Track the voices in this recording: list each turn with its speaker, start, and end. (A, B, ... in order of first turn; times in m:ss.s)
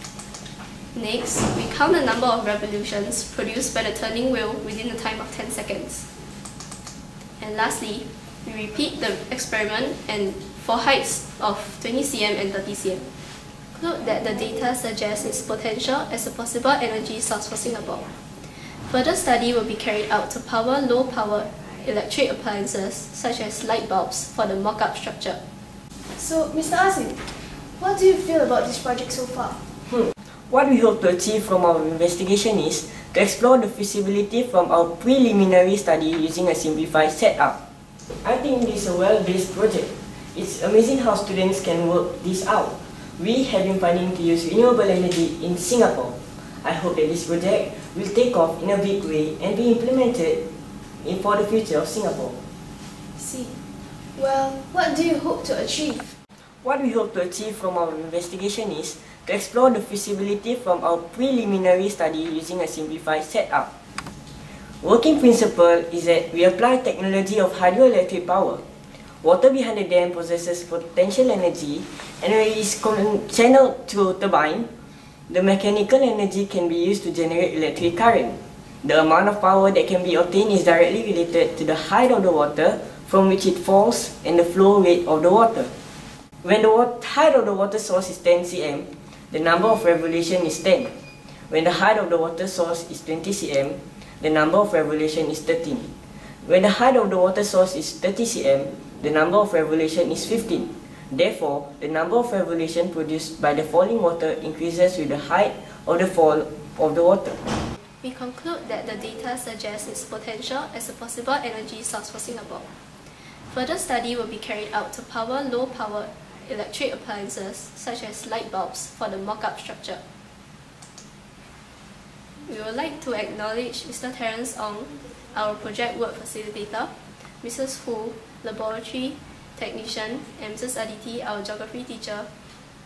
0:00.9-0:06.1 A
0:07.4-0:13.0 A
0:13.7-0:18.0 A
0:18.9-0:25.4 A
0:26.2-0:29.6 B
0:29.9-0:37.6 C
0:38.2-0:50.4 C
0:51.0-0:52.4 C
0:53.2-0:53.6 B
0:54.2-0:56.2 B
0:56.6-1:03.7 C
1:04.8-1:08.6 C
1:09.2-1:14.7 C
1:15.3-1:25.7 C
1:26.4-1:30.9 C
1:31.5-1:35.9 C
1:36.4-1:47.4 C
1:48.0-1:52.7 A
1:53.5-2:00.0 A
2:02.5-2:06.9 A
2:07.4-2:12.3 A